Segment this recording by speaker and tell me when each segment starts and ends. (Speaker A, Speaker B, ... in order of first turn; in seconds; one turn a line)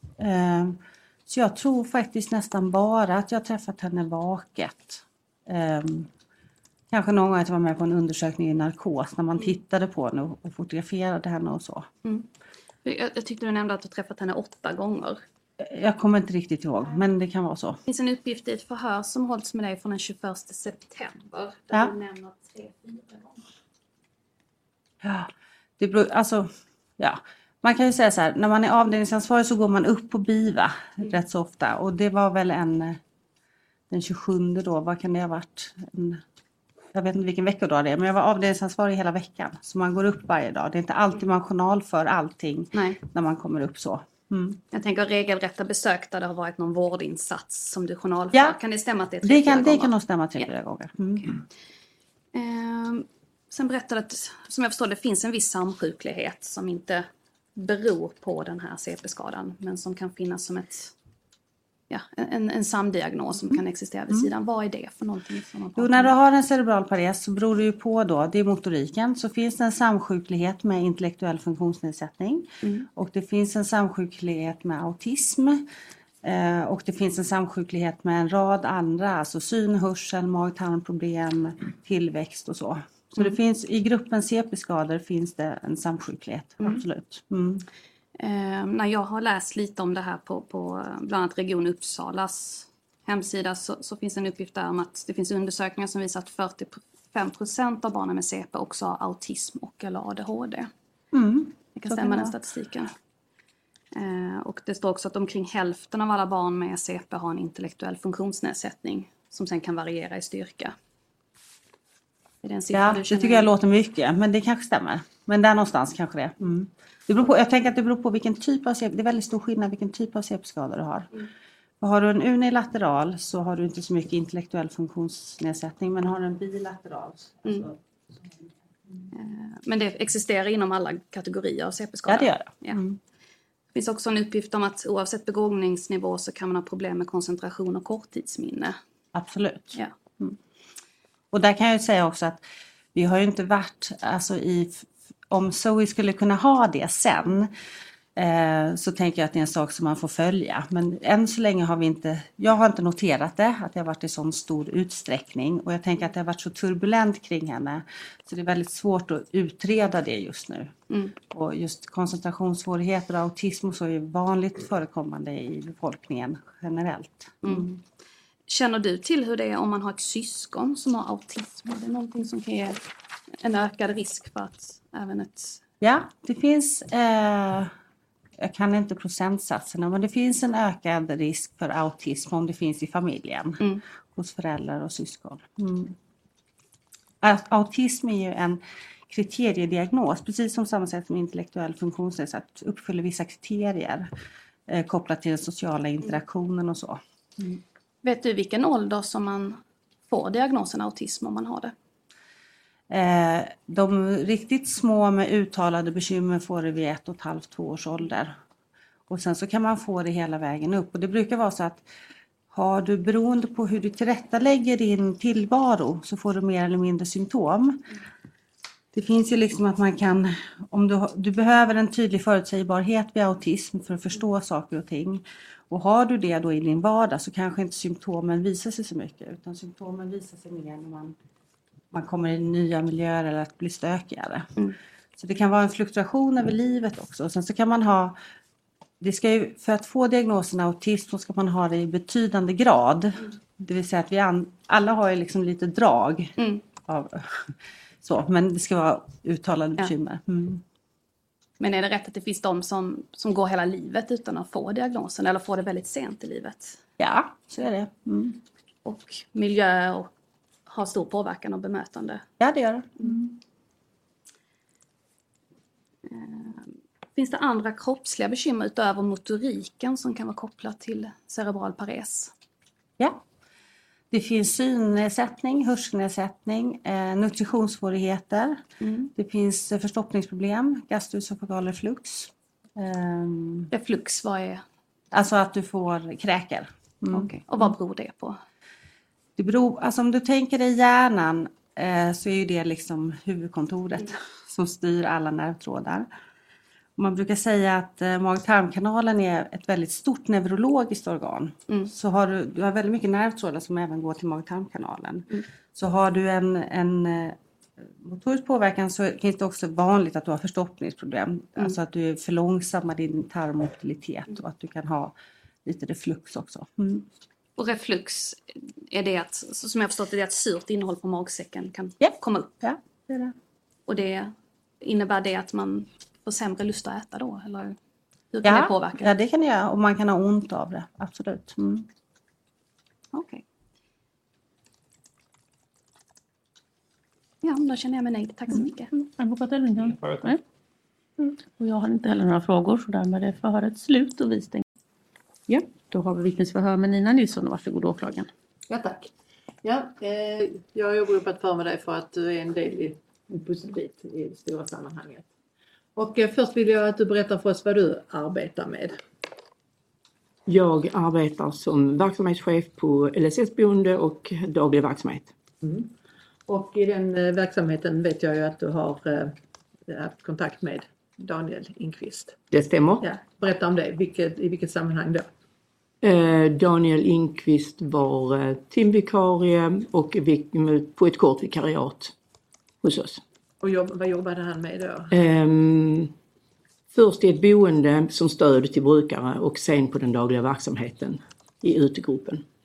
Speaker A: 0.2-6.1
Speaker A: 6.9-11.9
Speaker B: 12.8-15.2
Speaker A: 15.6-17.8
Speaker B: 17.9-23.0
Speaker A: 25.0-33.0
Speaker A: 33.9-36.2
Speaker A: 36.9-44.6
Speaker B: 44.7-49.9
Speaker A: 49.2-51.4
Speaker B: 52.3-60.9
Speaker B: 61.9-66.1
Speaker A: 65.8-75.6
Speaker A: 76.2-87.6
Speaker B: 88.2-100.7
Speaker A: 101.1-102.3
Speaker B: 101.8-102.9
Speaker B: 103.9-110.7
Speaker B: 112.4-113.5
Speaker A: 112.7-121.1
Speaker A: 121.8-128.5
Speaker B: 129.1-132.8
Speaker A: 132.1-133.0
Speaker B: 133.7-138.8
Speaker A: 139.1-140.4
Speaker A: 141.3-142.4
Speaker A: 142.9-147.5
Speaker A: 148.2-160.7
Speaker A: 161.3-167.8
Speaker B: 167.4-167.7
Speaker B: 168.5-172.8
Speaker B: 173.4-175.6
Speaker A: 175.8-177.7
Speaker A: 178.4-183.6
Speaker A: 184.1-185.9
Speaker A: 187.2-194.1
Speaker A: 194.7-197.6
Speaker B: 198.0-201.7
Speaker A: 202.9-208.4
Speaker A: 209.1-211.8
Speaker A: 212.5-217.8
Speaker A: 218.9-231.1
Speaker A: 231.9-234.5
Speaker A: 235.2-238.1
Speaker A: 239.0-246.3
Speaker A: 246.9-250.6
Speaker B: 251.6-256.8
Speaker A: 257.0-258.4
Speaker B: 258.8-260.1
Speaker B: 260.7-262.2
Speaker A: 262.4-263.2
Speaker B: 266.1-272.3
Speaker A: 274.1-278.6
Speaker B: 278.8-279.1
Speaker A: 279.1-283.7
Speaker B: 283.7-284.6
Speaker A: 285.1-287.3
Speaker B: 287.1-288.4
Speaker A: 289.4-296.1
Speaker A: 297.0-307.4
Speaker A: 308.0-315.1
Speaker A: 315.6-317.0
Speaker B: 317.6-322.4
Speaker A: 322.0-323.3
Speaker B: 323.9-327.8
Speaker B: 328.3-329.1
Speaker A: 328.4-331.9
Speaker B: 333.1-333.4
Speaker B: 337.4-338.9
Speaker C: 338.5-340.4
Speaker C: 341.2-344.6
Speaker C: 345.5-348.3
Speaker D: 348.7-349.1
Speaker D: 349.6-355.3
Speaker D: 355.9-359.0
Speaker E: 360.5-365.3
Speaker D: 365.6-365.9
Speaker D: 366.5-369.3
Speaker D: 369.9-372.4
Speaker E: 372.5-373.0
Speaker D: 373.0-375.3
Speaker E: 376.0-382.1
Speaker E: 382.8-383.2
Speaker D: 383.6-385.1
Speaker E: 385.1-386.1
Speaker E: 386.9-392.4